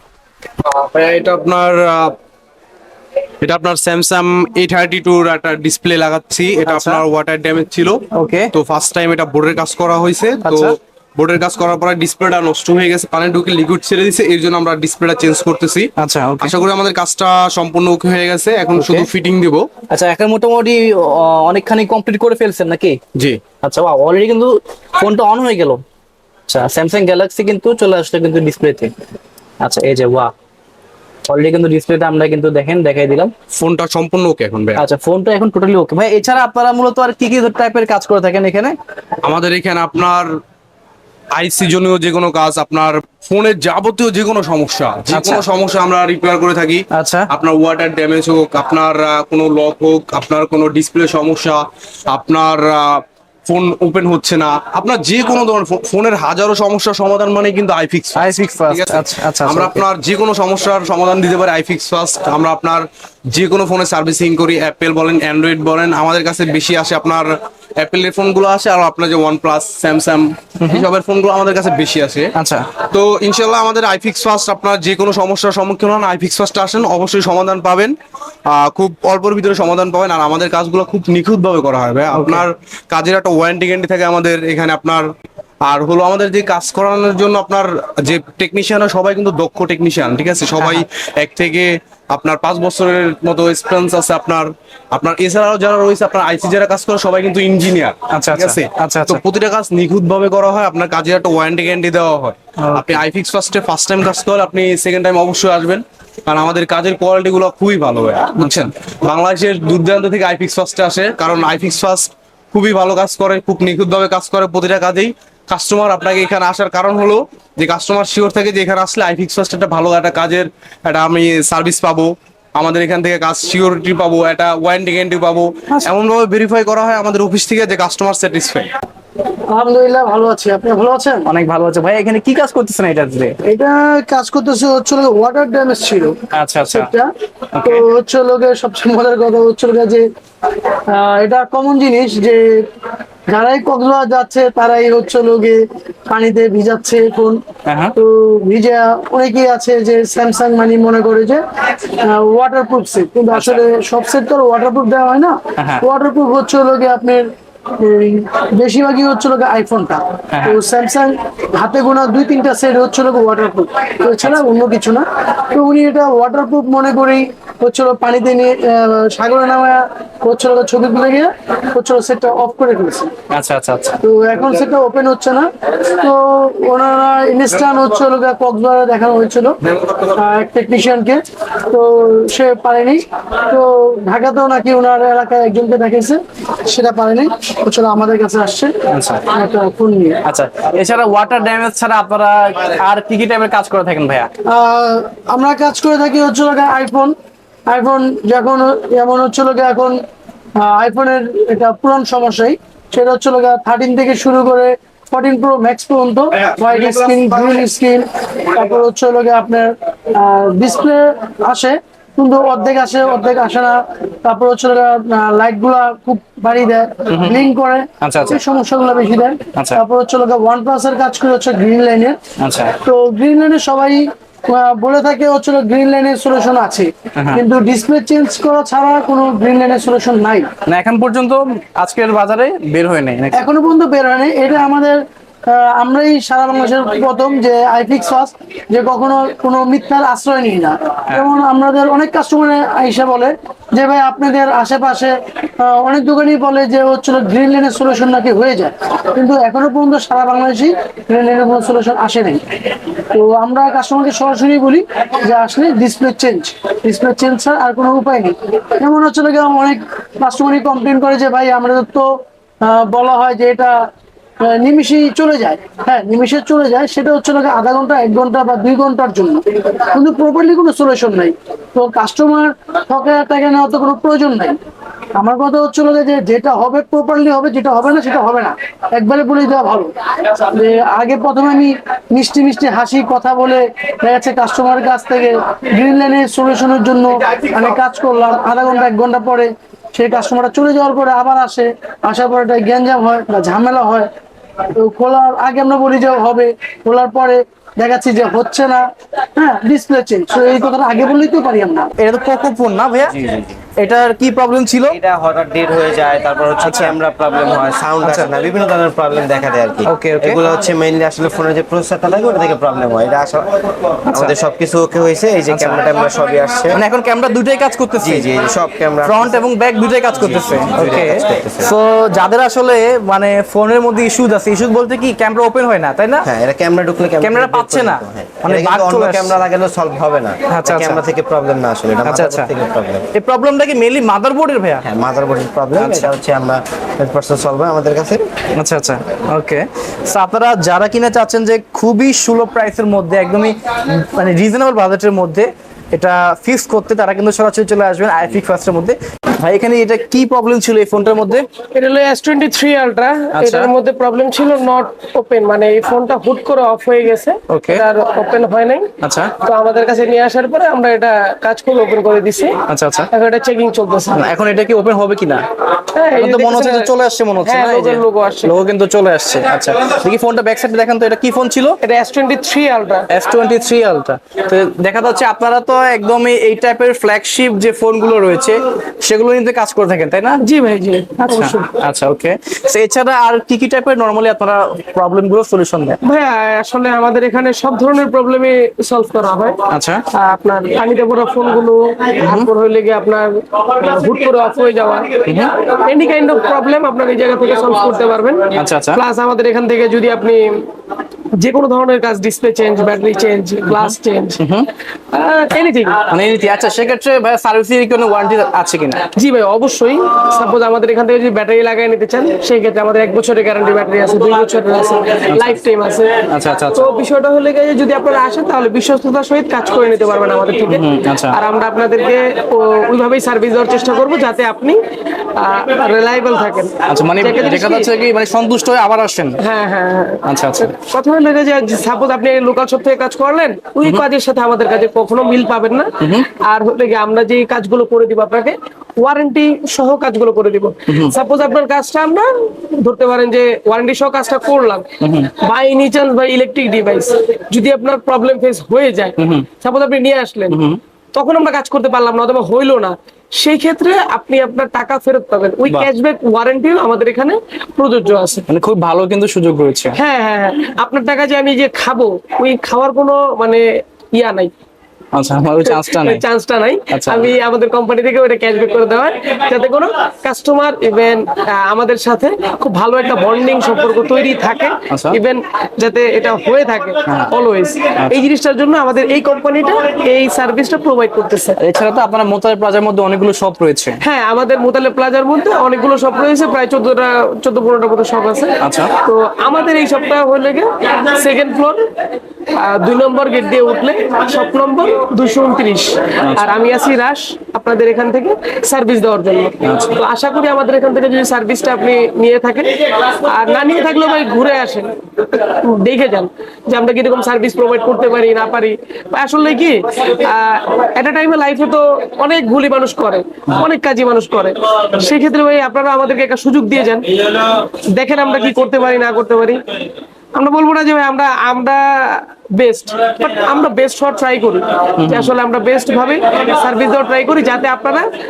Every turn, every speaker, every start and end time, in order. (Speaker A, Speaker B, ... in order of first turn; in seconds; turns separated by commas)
Speaker A: 0.6-2.1, Speaker A: 3.4-19.7, Speaker B: 6.7-7.0, Speaker B: 8.1-8.5, Speaker B: 10.4-10.7, Speaker B: 16.0-16.6, Speaker B: 18.8-19.1, Speaker B: 19.9-23.0, Speaker A: 23.1-23.4, Speaker B: 23.6-25.8, Speaker B: 26.5-28.9, Speaker B: 29.6-30.3, Speaker B: 31.2-33.3, Speaker A: 33.5-34.8, Speaker B: 34.8-38.8, Speaker A: 39.2-40.3, Speaker A: 41.3-72.3, Speaker B: 45.1-45.4, Speaker B: 46.9-47.3, Speaker B: 58.1-59.8, Speaker B: 70.6-70.8, Speaker B: 72.3-72.7, Speaker A: 72.9-77.9, Speaker A: 78.5-85.0, Speaker B: 82.1-82.4, Speaker A: 85.6-128.7, Speaker B: 90.6-90.8, Speaker B: 98.1-99.2, Speaker B: 102.6-103.0, Speaker C: 129.5-131.3, Speaker B: 131.2-133.3, Speaker C: 133.4-137.1, Speaker B: 136.3-136.9, Speaker B: 137.5-137.8, Speaker C: 137.6-140.0, Speaker C: 140.9-142.6, Speaker C: 143.3-147.4, Speaker B: 147.7-147.9, Speaker C: 148.0-151.4, Speaker C: 152.0-173.1, Speaker B: 153.3-153.6, Speaker B: 155.6-155.8, Speaker B: 160.3-160.6, Speaker B: 173.3-174.0, Speaker C: 174.0-179.6, Speaker C: 180.1-188.7, Speaker B: 188.9-189.2, Speaker C: 189.3-190.2, Speaker B: 190.2-194.3, Speaker C: 194.5-197.1, Speaker C: 197.7-200.0, Speaker C: 200.6-222.2, Speaker B: 217.1-217.5, Speaker B: 218.0-218.4, Speaker B: 219.6-219.8, Speaker B: 222.4-222.7, Speaker C: 222.8-230.5, Speaker B: 227.2-227.4, Speaker B: 230.7-233.4, Speaker C: 233.3-252.4, Speaker C: 253.1-263.9, Speaker C: 264.4-274.6, Speaker C: 275.1-294.1, Speaker C: 294.8-298.8, Speaker C: 299.4-301.9, Speaker B: 302.0-303.3, Speaker D: 303.1-303.5, Speaker B: 303.8-305.0, Speaker D: 304.9-316.8, Speaker B: 306.6-306.9, Speaker B: 308.0-308.3, Speaker B: 309.8-310.4, Speaker B: 314.1-314.4, Speaker B: 315.5-315.8, Speaker B: 316.7-318.3, Speaker D: 318.0-319.4, Speaker B: 319.0-326.3, Speaker D: 320.1-321.7, Speaker D: 326.2-333.0, Speaker B: 327.2-329.4, Speaker B: 330.5-331.0, Speaker B: 332.0-332.5, Speaker B: 333.1-334.8, Speaker D: 334.8-338.2, Speaker B: 335.7-336.1, Speaker B: 338.6-351.4, Speaker E: 351.7-358.9, Speaker B: 353.3-353.7, Speaker B: 357.5-357.8, Speaker B: 359.0-359.3, Speaker E: 359.4-362.6, Speaker B: 362.7-363.1, Speaker E: 363.1-364.2, Speaker B: 364.1-365.4, Speaker E: 365.9-366.9, Speaker B: 366.1-371.8, Speaker E: 367.4-368.6, Speaker E: 371.8-373.1, Speaker B: 373.1-380.4, Speaker E: 380.4-381.7, Speaker B: 381.2-386.0, Speaker E: 386.0-389.6, Speaker B: 389.7-390.0, Speaker E: 390.1-400.5, Speaker B: 392.2-392.5, Speaker B: 395.2-395.5, Speaker B: 398.5-399.0, Speaker E: 401.4-404.4, Speaker B: 403.7-404.7, Speaker E: 405.1-406.0, Speaker B: 406.1-409.0, Speaker E: 409.1-416.1, Speaker B: 415.3-415.6, Speaker B: 416.3-416.9, Speaker E: 416.7-424.8, Speaker B: 420.7-421.4, Speaker E: 425.3-427.9, Speaker B: 426.9-429.4, Speaker E: 429.4-444.9, Speaker B: 430.2-430.7, Speaker B: 436.0-436.3, Speaker B: 440.9-441.1, Speaker B: 445.0-445.3, Speaker E: 445.4-450.6, Speaker B: 449.2-449.4, Speaker B: 450.5-450.8, Speaker E: 451.1-458.4, Speaker B: 458.5-459.9, Speaker E: 460.0-463.6, Speaker E: 464.1-464.5, Speaker B: 465.1-466.2, Speaker E: 465.6-481.6, Speaker B: 466.9-467.3, Speaker B: 474.9-475.2, Speaker B: 477.1-477.3, Speaker B: 481.6-484.0, Speaker E: 484.0-491.8, Speaker B: 488.6-488.9, Speaker E: 492.5-517.1, Speaker B: 496.2-496.6, Speaker B: 499.6-500.0, Speaker E: 517.9-519.6, Speaker E: 520.3-528.1, Speaker B: 525.0-525.3